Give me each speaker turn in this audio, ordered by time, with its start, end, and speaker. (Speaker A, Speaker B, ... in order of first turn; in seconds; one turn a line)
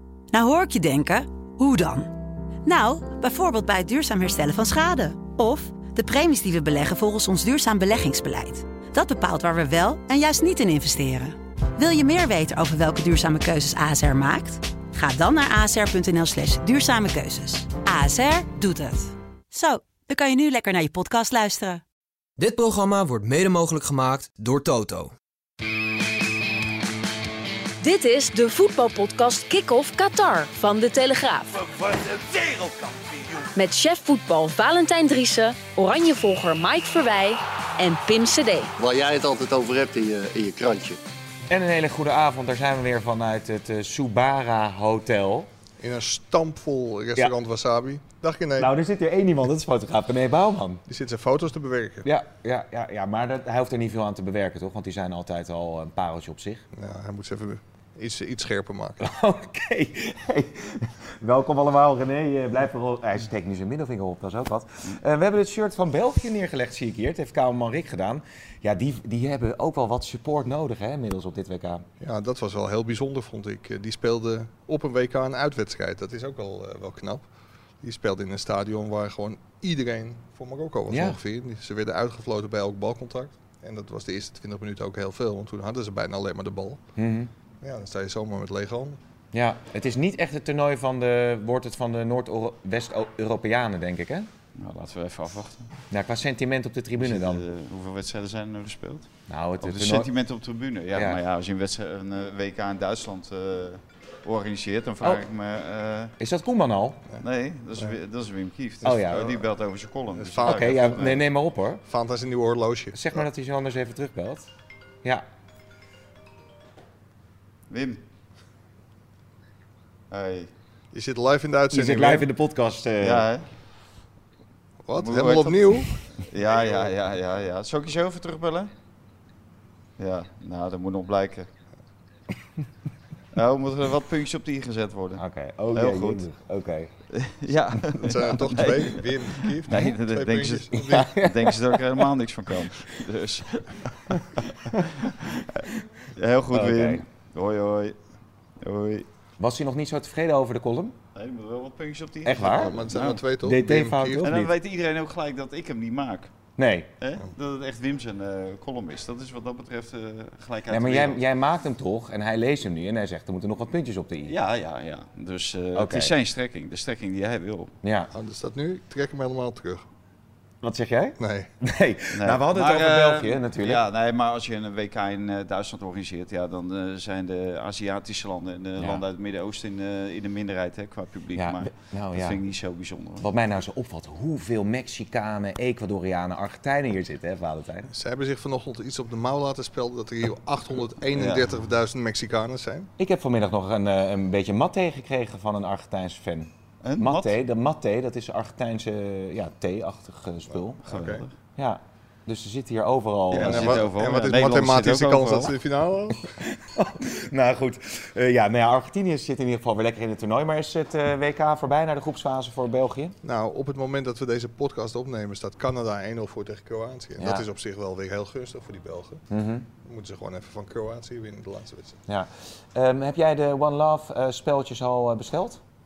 Speaker A: 0.3-2.1
Speaker A: 2.6-21.8
Speaker B: 22.4-25.1
Speaker C: 27.8-31.7
Speaker D: 31.8-33.2
Speaker C: 33.5-38.7
Speaker E: 38.8-41.0
Speaker D: 41.5-45.5
Speaker F: 45.8-48.7
Speaker D: 48.6-50.8
Speaker F: 50.9-52.1
Speaker D: 52.0-56.6
Speaker F: 56.8-59.1
Speaker D: 59.0-71.8
Speaker F: 72.0-77.3
Speaker F: 77.8-86.8
Speaker D: 80.9-81.2
Speaker D: 87.0-87.3
Speaker F: 87.6-89.0
Speaker D: 89.3-94.3
Speaker G: 94.6-95.7
Speaker D: 95.9-97.4
Speaker G: 97.0-99.1
Speaker D: 99.3-100.1
Speaker G: 99.6-106.2
Speaker D: 100.9-101.2
Speaker D: 106.2-107.0
Speaker G: 107.2-111.2
Speaker D: 108.8-109.4
Speaker F: 110.1-111.2
Speaker D: 110.4-111.8
Speaker F: 111.8-113.2
Speaker D: 112.9-114.5
Speaker G: 117.7-118.0
Speaker G: 120.1-120.5
Speaker F: 120.9-122.3
Speaker D: 121.7-123.3
Speaker G: 123.0-123.5
Speaker F: 124.9-126.9
Speaker G: 125.0-128.7
Speaker G: 130.0-131.5
Speaker G: 133.3-136.3
Speaker D: 135.2-136.9
Speaker G: 137.1-143.7
Speaker F: 138.0-141.2
Speaker D: 140.7-142.1
Speaker G: 144.4-148.0
Speaker D: 146.5-147.0
Speaker G: 148.6-149.1
Speaker D: 149.4-151.0
Speaker G: 151.2-153.2
Speaker D: 152.2-152.8
Speaker F: 152.4-154.2
Speaker D: 153.4-154.5
Speaker G: 154.2-156.3
Speaker D: 156.6-156.9
Speaker G: 157.0-161.2
Speaker D: 160.7-164.4
Speaker G: 164.3-167.7
Speaker D: 165.8-166.1
Speaker D: 167.8-168.1
Speaker F: 168.1-169.8
Speaker D: 170.6-173.8
Speaker F: 171.2-171.5
Speaker G: 172.1-183.3
Speaker D: 178.8-179.0
Speaker D: 181.4-182.4
Speaker D: 183.2-187.9
Speaker F: 187.9-192.9
Speaker G: 191.2-191.6
Speaker D: 193.0-200.8
Speaker G: 196.8-197.4
Speaker F: 200.5-201.2
Speaker G: 200.8-201.3
Speaker D: 201.6-203.9
Speaker G: 203.3-205.6
Speaker F: 203.3-206.3
Speaker D: 206.3-213.2
Speaker F: 213.2-219.2
Speaker D: 217.2-217.5
Speaker D: 219.3-219.7
Speaker F: 219.8-222.0
Speaker D: 222.1-225.6